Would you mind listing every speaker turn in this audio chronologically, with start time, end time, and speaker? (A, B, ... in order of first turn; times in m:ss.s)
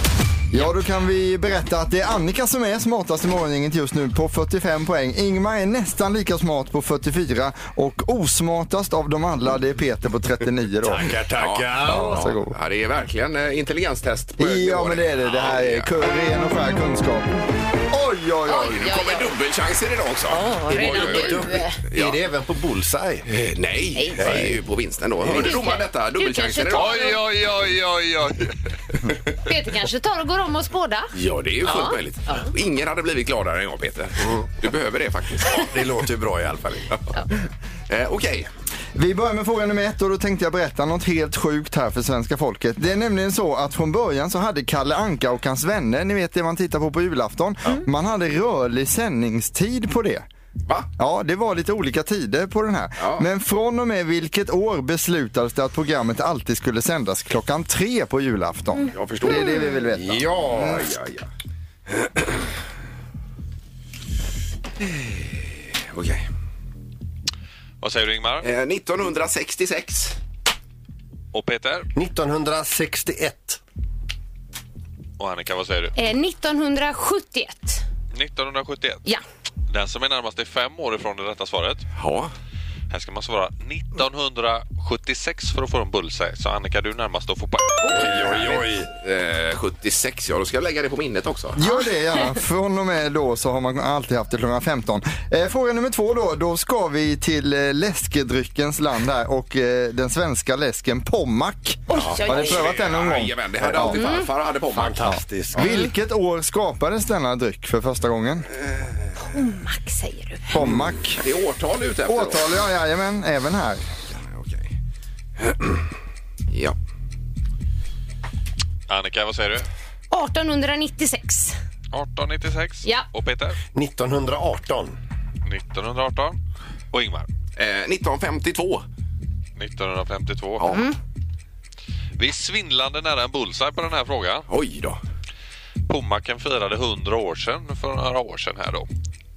0:00.5-0:11.1 A
0:10.8-0:12.3 B
0:11.4-0:15.9 C
0:11.9-0:12.6 A
0:14.4-0:18.9 A
0:18.5-0:19.3 D
0:18.8-0:22.2 C
0:20.3-0:21.8 D
0:20.7-0:23.3 B
0:23.3-0:27.2 C
0:24.0-0:24.3 D
0:24.2-0:24.6 B
0:25.2-0:25.5 B
0:25.3-0:27.2 D
0:26.7-0:28.5 E
0:29.4-0:31.1 D
0:31.1-0:35.9 C
0:31.6-0:32.5 D
0:34.2-0:34.5 B
0:35.5-0:37.0 B
0:37.9-0:38.5 C
0:39.0-0:50.3 A
0:51.0-1:00.8 A
0:53.0-0:53.2 C
0:58.9-1:01.3 C
0:59.3-0:59.8 D
1:00.0-1:00.8 B
1:01.9-1:02.4 C
1:04.8-1:06.3 C
1:07.8-1:08.5 E
1:08.4-1:10.2 C
1:11.3-1:11.9 E
1:12.0-1:13.6 B
1:15.2-1:15.9 E
1:16.0-1:17.8 D
1:18.1-1:19.0 E
1:19.7-1:21.8 E
1:22.0-1:22.3 C
1:22.9-1:28.6 E
1:27.9-1:28.9 B
1:29.0-1:31.6 C
1:31.6-1:44.0 A
1:31.6-1:32.4 D
1:41.9-1:42.6 D
1:42.0-1:42.2 B
1:42.3-1:45.1 C
1:43.6-1:43.9 B
1:43.9-1:44.3 D
1:44.7-1:45.7 B
1:45.1-1:48.5 A
1:45.6-1:45.9 D
1:49.2-1:50.5 D
1:50.5-1:51.2 A
1:51.2-1:52.5 C
1:52.1-1:53.8 A
1:54.1-1:54.7 C
1:55.4-1:55.7 C
1:58.9-1:59.7 E
2:00.1-2:01.6 D
2:01.9-2:03.6 E
2:03.7-2:05.0 B
2:05.4-2:06.4 E
2:06.9-2:07.3 E
2:07.6-2:08.8 C
2:09.6-2:10.8 E
2:10.7-2:11.0 D
2:12.2-2:14.4 E
2:14.5-2:15.0 C
2:15.9-2:18.9 E